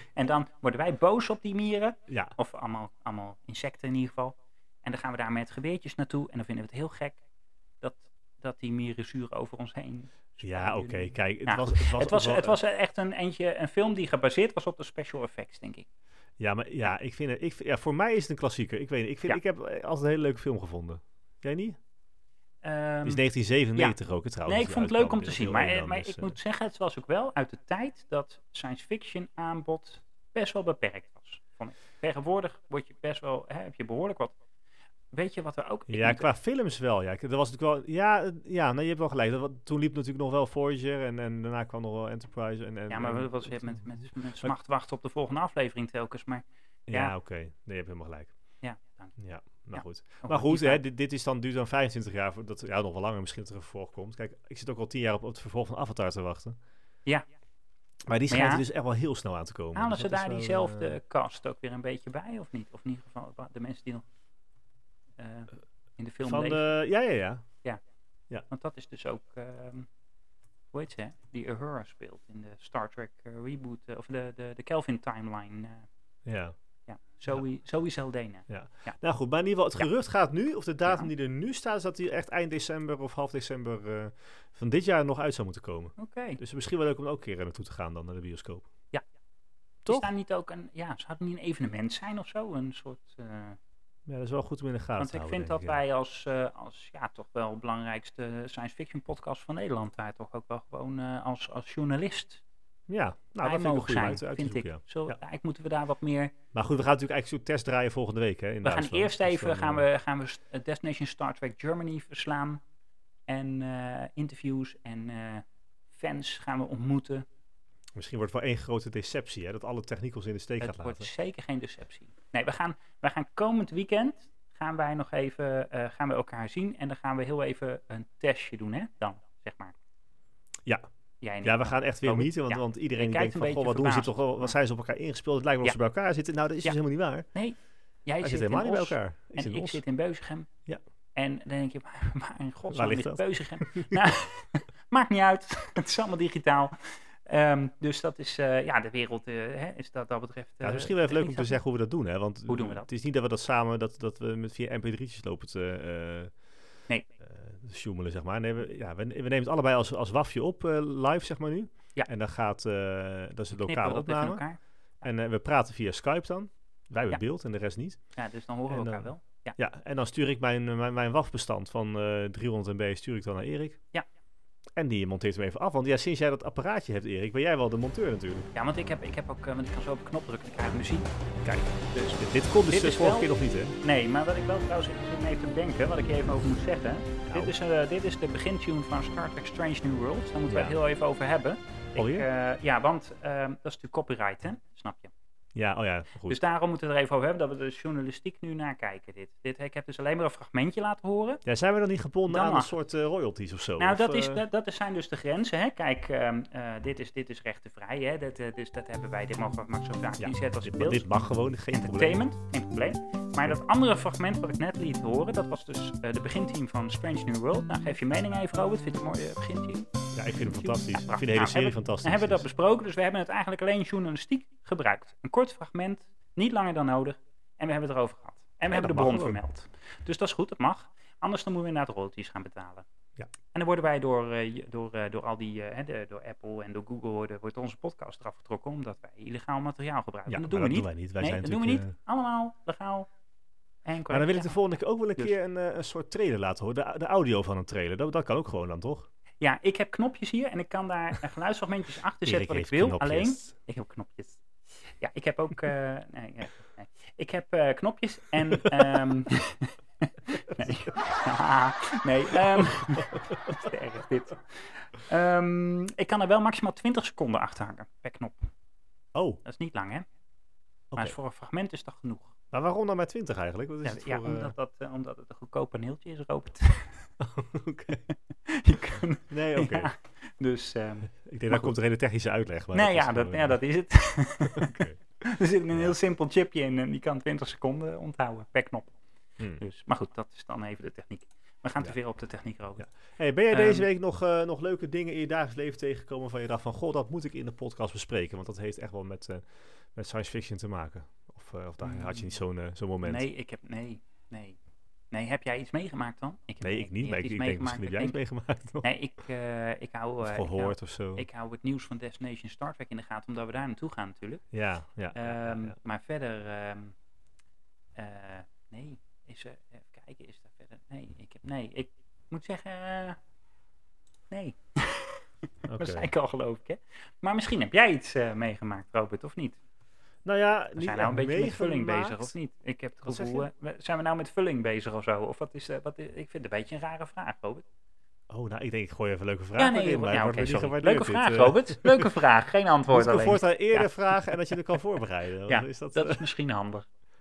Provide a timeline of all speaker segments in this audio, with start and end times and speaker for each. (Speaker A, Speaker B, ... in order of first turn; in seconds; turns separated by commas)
Speaker A: 0.1-7.2, Speaker B: 2.1-2.4, Speaker A: 7.8-15.9, Speaker B: 10.4-12.6, Speaker B: 16.4-21.8, Speaker A: 22.6-23.2, Speaker B: 23.0-26.4, Speaker A: 23.8-34.4, Speaker A: 35.1-36.3, Speaker B: 35.9-43.8, Speaker A: 42.9-47.1, Speaker B: 46.9-48.3, Speaker A: 48.6-50.8, Speaker B: 49.2-56.5, Speaker B: 58.1-61.0, Speaker A: 58.3-58.6, Speaker A: 59.8-64.0, Speaker A: 65.2-66.7, Speaker B: 66.2-67.5, Speaker A: 68.5-69.9, Speaker A: 70.7-75.9, Speaker B: 76.2-76.5, Speaker A: 76.9-79.0, Speaker B: 78.5-88.7, Speaker A: 80.8-81.1, Speaker A: 86.0-86.4, Speaker B: 89.8-90.1, Speaker A: 89.9-93.6, Speaker B: 94.0-95.8, Speaker A: 95.0-102.4, Speaker B: 102.9-105.2, Speaker A: 103.4-106.3, Speaker B: 106.5-109.9, Speaker A: 108.6-112.6, Speaker A: 113.3-117.2, Speaker B: 118.0-121.1, Speaker A: 120.6-129.8, Speaker A: 131.2-134.6, Speaker B: 131.4-137.3, Speaker A: 137.3-140.5, Speaker B: 138.2-139.8, Speaker A: 141.1-151.6, Speaker B: 142.7-144.0, Speaker B: 150.6-156.3, Speaker A: 152.5-152.9, Speaker B: 157.2-164.4, Speaker A: 163.6-164.6, Speaker B: 165.0-168.0, Speaker A: 168.2-169.6, Speaker B: 168.7-173.8, Speaker B: 174.8-178.5, Speaker A: 178.5-181.1, Speaker B: 181.4-183.8, Speaker A: 182.7-183.3, Speaker A: 183.8-195.1, Speaker B: 187.3-187.5, Speaker B: 190.5-190.8, Speaker B: 192.0-192.3, Speaker B: 195.5-196.4, Speaker A: 196.3-201.4, Speaker B: 201.4-204.4, Speaker A: 202.3-202.7, Speaker A: 203.8-211.1, Speaker B: 210.2-212.2, Speaker A: 211.7-232.8, Speaker B: 220.1-222.5, Speaker B: 228.7-229.4, Speaker A: 233.5-243.1, Speaker B: 240.3-241.9, Speaker A: 243.8-244.6, Speaker B: 244.1-249.1, Speaker A: 249.4-254.4, Speaker B: 252.2-253.5, Speaker A: 255.0-268.5, Speaker B: 260.5-260.8, Speaker B: 262.3-263.1, Speaker B: 269.1-269.4, Speaker A: 269.4-270.0, Speaker B: 270.9-271.2, Speaker A: 271.0-272.3, Speaker B: 272.5-274.5, Speaker A: 273.8-277.1, Speaker B: 277.2-278.0, Speaker A: 277.9-281.7, Speaker B: 279.3-279.9, Speaker B: 281.1-283.6, Speaker A: 282.7-288.9, Speaker B: 284.5-285.0, Speaker B: 289.4-289.6, Speaker A: 289.6-292.9, Speaker B: 292.8-303.3, Speaker A: 293.5-293.9, Speaker A: 301.8-302.4, Speaker A: 303.0-304.6, Speaker A: 305.1-308.2, Speaker B: 306.6-308.9, Speaker A: 308.8-314.4, Speaker B: 310.2-311.2, Speaker B: 314.5-315.8, Speaker A: 315.1-316.9, Speaker A: 318.0-323.2, Speaker A: 324.3-329.6, Speaker B: 325.7-326.1, Speaker B: 330.2-332.3, Speaker A: 330.8-337.6, Speaker B: 333.0-333.5, Speaker B: 338.3-342.1, Speaker A: 339.6-344.6, Speaker B: 342.9-346.2, Speaker A: 345.5-346.9